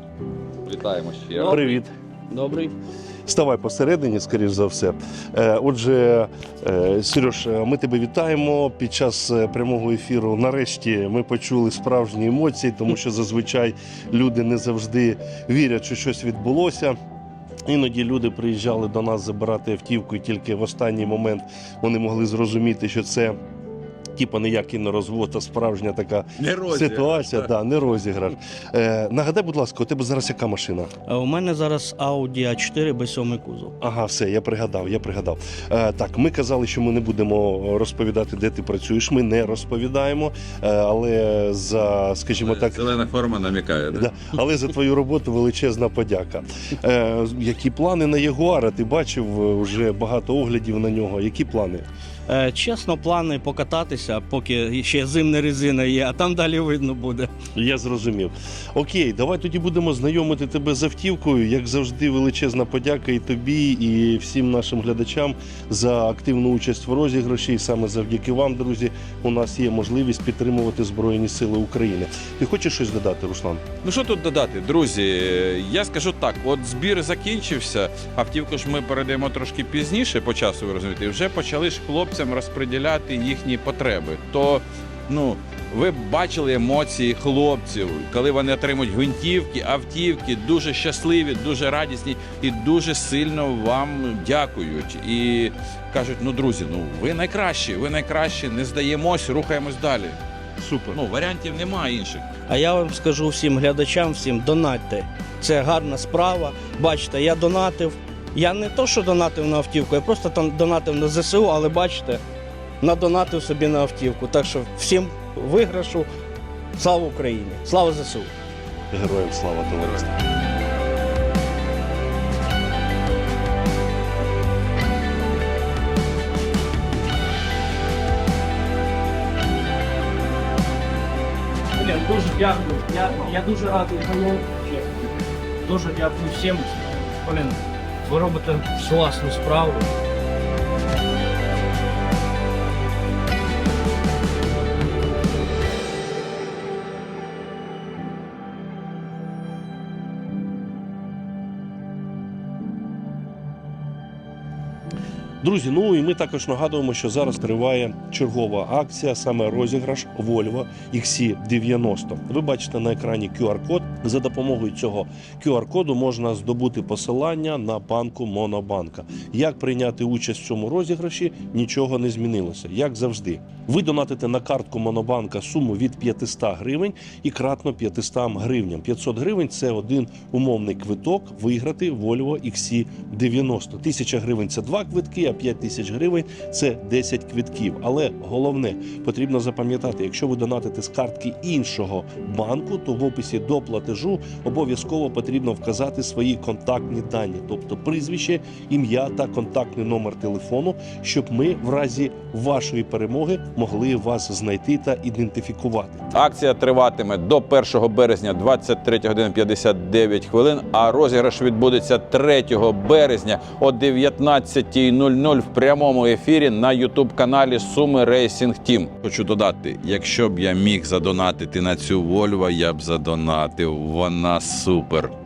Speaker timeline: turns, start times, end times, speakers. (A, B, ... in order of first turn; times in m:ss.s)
0:00.6-0:01.8 A
0:01.4-0:01.9 B
0:02.3-0:02.7 C
0:03.2-0:17.0 B
0:17.6-0:23.4 B
0:24.1-0:30.9 B
0:26.4-0:27.5 A
0:31.1-0:33.7 C
0:33.8-0:42.9 B
0:42.3-0:44.1 A
0:43.9-0:51.8 B
0:52.3-0:57.3 C
0:57.5-1:13.6 B
1:13.8-1:40.2 A
1:40.6-1:41.0 B
1:40.9-1:42.3 A
1:42.5-1:52.2 C
1:52.8-1:56.1 C
1:56.8-1:58.3 C
1:58.9-2:00.2 B
2:11.8-2:15.0 C
2:15.6-2:19.9 C
2:35.4-3:26.2 B
3:26.1-3:45.1 A